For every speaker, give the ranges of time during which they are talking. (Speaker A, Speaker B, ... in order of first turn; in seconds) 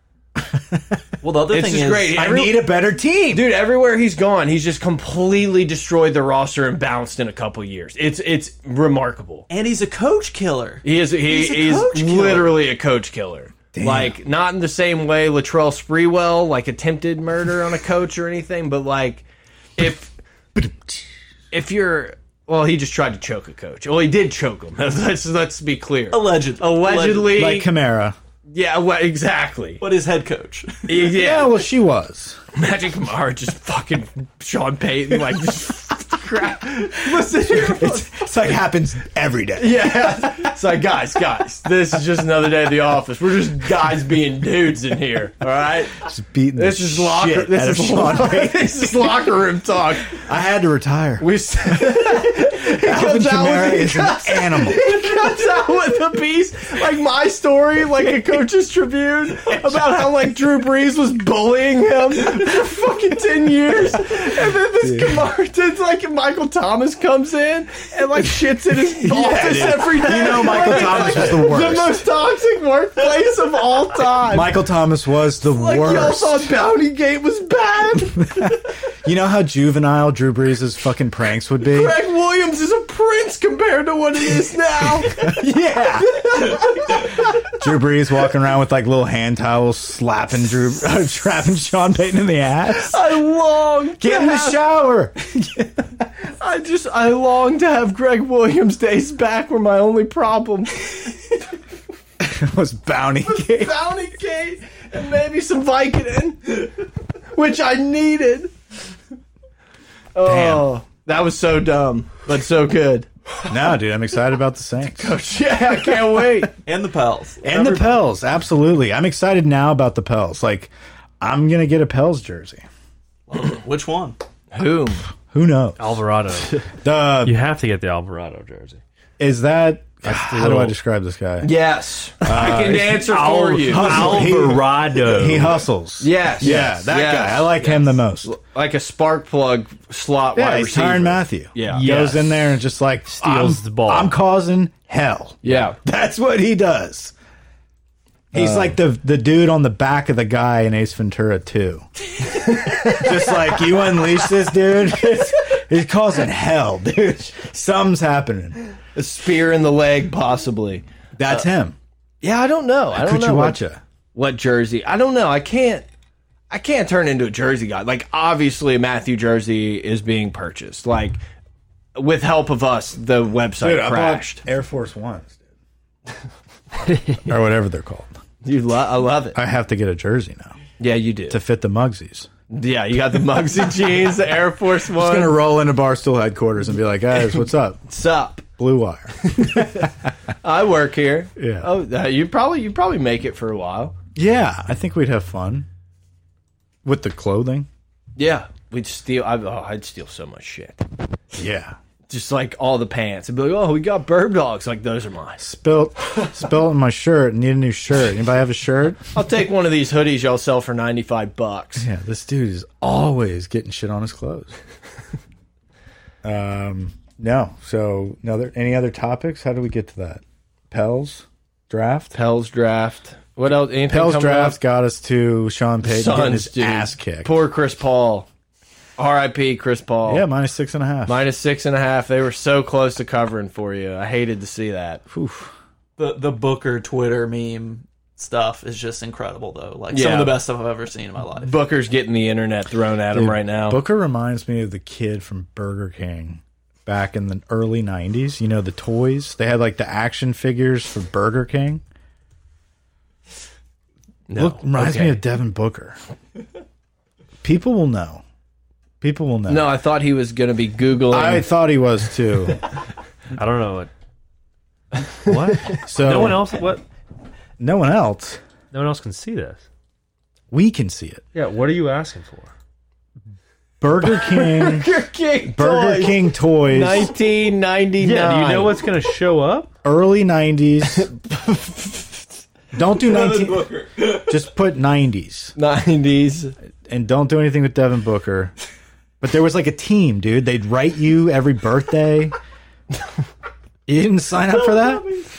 Speaker A: 0.5-0.8, 2.1-3.5, 13.7-14.2, 20.6-21.0, 27.3-28.2, 31.1-32.4, 37.5-40.5, 46.0-49.1, 50.1-54.8, 64.8-65.2, 68.8-72.0, 74.2-76.5, 78.2-82.0, 85.1-93.0, 94.0-96.0, 102.2-103.8, 110.2-110.7, 113.5-115.2, 117.4-122.7, 125.3-126.0, 126.7-127.4, 129.2-131.5, 132.2-138.3, 140.3-147.1, 148.3-158.6, 161.2-161.8, 162.9-163.8, 173.6-175.3, 177.2-178.1, 179.3-180.6, 181.3-182.3, 185.0-187.8, 188.6-189.9, 191.4-191.7, 194.1-195.7, 196.8-197.7, 201.3-201.8, 205.4-209.0, 211.8-214.5, 216.2-222.2, 223.9-227.3, 230.1-231.2, 235.1-235.5, 243.1-251.8, 254.3-256.0, 257.4-258.2, 259.0-259.7, 261.1-262.6, 265.7-266.5, 267.6-268.4, 270.5-271.2, 273.8-274.9, 275.5-277.1, 279.8-281.1, 282.7-285.5, 286.9-288.5, 289.2-292.4, 293.9-295.1
Speaker B: 1.2-2.3, 9.5-12.6, 26.1-27.4, 29.8-31.0, 36.8-38.2, 70.3-71.4, 116.6-117.5, 123.3-124.2, 236.0-241.5, 283.0-284.2, 294.6-295.1
Speaker C: 1.5-2.7, 3.3-9.5, 10.8-19.2, 19.8-20.1, 21.5-27.7, 28.5-29.8, 30.9-31.5, 32.5-37.0, 39.6-46.0, 46.5-50.2, 51.2-74.6, 75.4-78.5, 81.6-85.3, 86.3-87.0, 92.7-94.6, 96.4-101.1, 103.5-106.7, 107.3-108.5, 110.1-113.1, 115.0-116.5, 124.5-125.1, 131.4-134.4, 136.0-142.0, 145.4-145.8, 148.3-148.7, 152.6-153.1, 158.9-160.8, 162.2-163.6, 164.1-165.8, 166.5-171.2, 171.9-174.4, 178.4-179.4, 180.8-181.4, 182.5-185.3, 187.9-188.4, 189.3-189.9, 190.4-193.9, 198.2-200.8, 202.1-205.4, 209.1-211.9, 222.1-224.6, 225.8-228.3, 229.0-230.2, 231.1-235.0, 239.9-240.4, 241.4-243.8, 254.3-255.2, 259.5-261.5, 274.0-278.8, 280.8-282.4, 285.6-286.5
Speaker D: 117.5-117.9, 125.8-126.7, 127.2-128.8, 130.0-130.7, 132.4-135.6, 141.7-142.5, 143.1-144.1, 176.9-177.2, 263.3-263.9, 265.2-266.8, 268.7-269.6, 271.3-272.5, 278.0-279.7